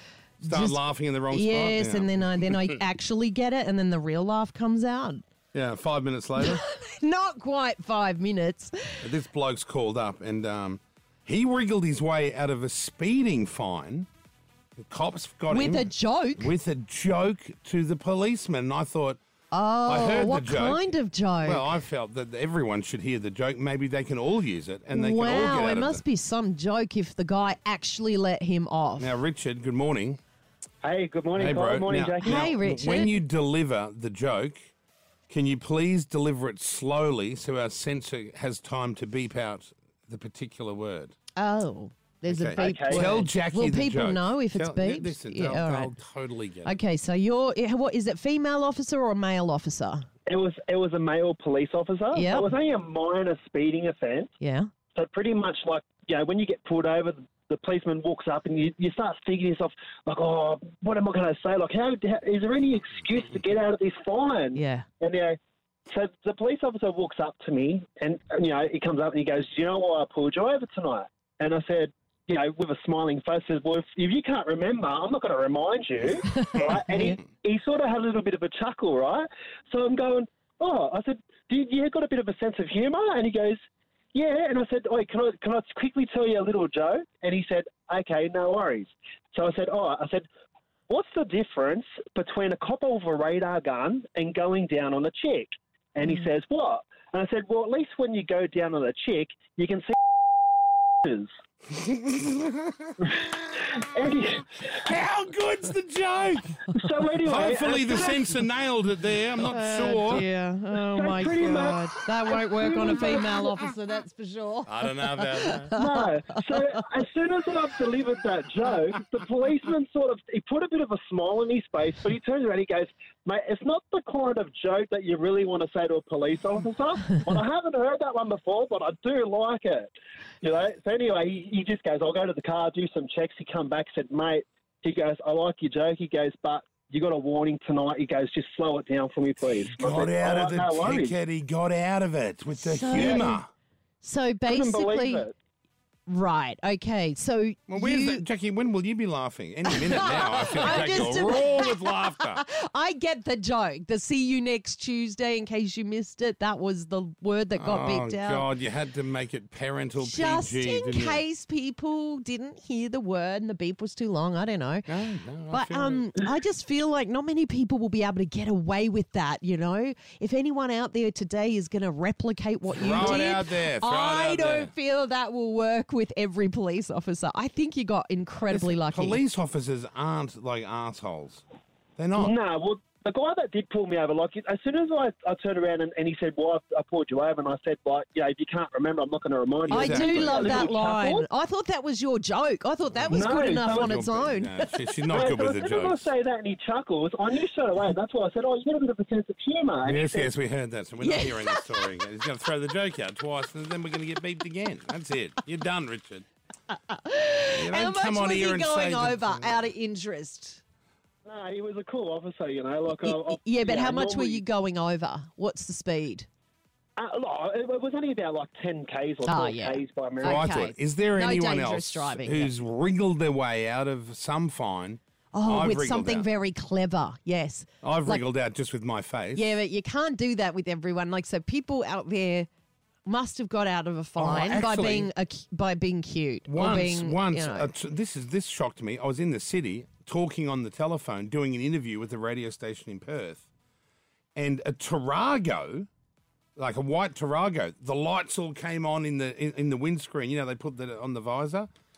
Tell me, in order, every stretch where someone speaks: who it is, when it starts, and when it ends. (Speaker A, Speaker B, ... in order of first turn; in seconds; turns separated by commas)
Speaker A: 0.4-5.2, Speaker B: 0.5-2.4, Speaker B: 5.5-6.6, Speaker A: 6.4-9.1, Speaker B: 9.0-14.1, Speaker B: 14.8-19.2, Speaker A: 15.5-16.5, Speaker A: 19.5-21.7, Speaker B: 19.9-20.8, Speaker B: 21.4-26.0, Speaker A: 24.9-29.2, Speaker B: 29.0-30.2, Speaker C: 30.8-33.0, Speaker B: 31.4-34.7, Speaker A: 32.2-33.2, Speaker B: 35.3-41.1, Speaker A: 41.4-46.0, Speaker B: 42.3-46.8, Speaker C: 42.6-43.2, Speaker A: 46.6-50.0, Speaker C: 50.3-54.3, Speaker A: 52.1-52.5, Speaker A: 54.4-54.7, Speaker C: 55.0-83.6, Speaker A: 64.5-64.9, Speaker C: 84.1-90.3, Speaker C: 90.9-99.9, Speaker B: 101.8-103.7, Speaker C: 103.8-104.7, Speaker B: 104.7-106.7, Speaker C: 106.7-108.3, Speaker B: 107.2-110.2, Speaker A: 109.5-116.8, Speaker C: 110.9-113.2, Speaker B: 114.7-115.7, Speaker C: 115.7-141.2, Speaker B: 139.7-143.5, Speaker A: 142.6-143.4, Speaker C: 143.0-143.2, Speaker A: 144.0-145.2, Speaker C: 144.5-145.3, Speaker A: 146.1-148.2, Speaker B: 147.7-152.4, Speaker A: 149.7-158.5, Speaker B: 157.6-161.2, Speaker A: 159.9-179.2, Speaker B: 164.9-166.0, Speaker B: 172.7-174.7, Speaker B: 178.5-181.4, Speaker B: 182.0-182.3, Speaker C: 182.2-191.2, Speaker B: 189.7-190.5, Speaker A: 189.7-194.9, Speaker B: 192.9-196.0, Speaker C: 193.1-193.9, Speaker C: 195.1-200.3, Speaker B: 199.8-206.2, Speaker A: 201.0-202.0, Speaker A: 206.7-210.6, Speaker B: 207.5-209.6, Speaker C: 211.2-214.4, Speaker A: 212.9-216.3, Speaker C: 217.0-220.4, Speaker A: 219.2-222.5, Speaker B: 220.2-226.3, Speaker A: 225.3-228.2, Speaker B: 227.8-229.6, Speaker A: 229.3-232.5, Speaker A: 233.1-237.8, Speaker B: 234.2-235.1, Speaker B: 236.5-243.5, Speaker B: 244.4-245.9, Speaker B: 246.6-251.7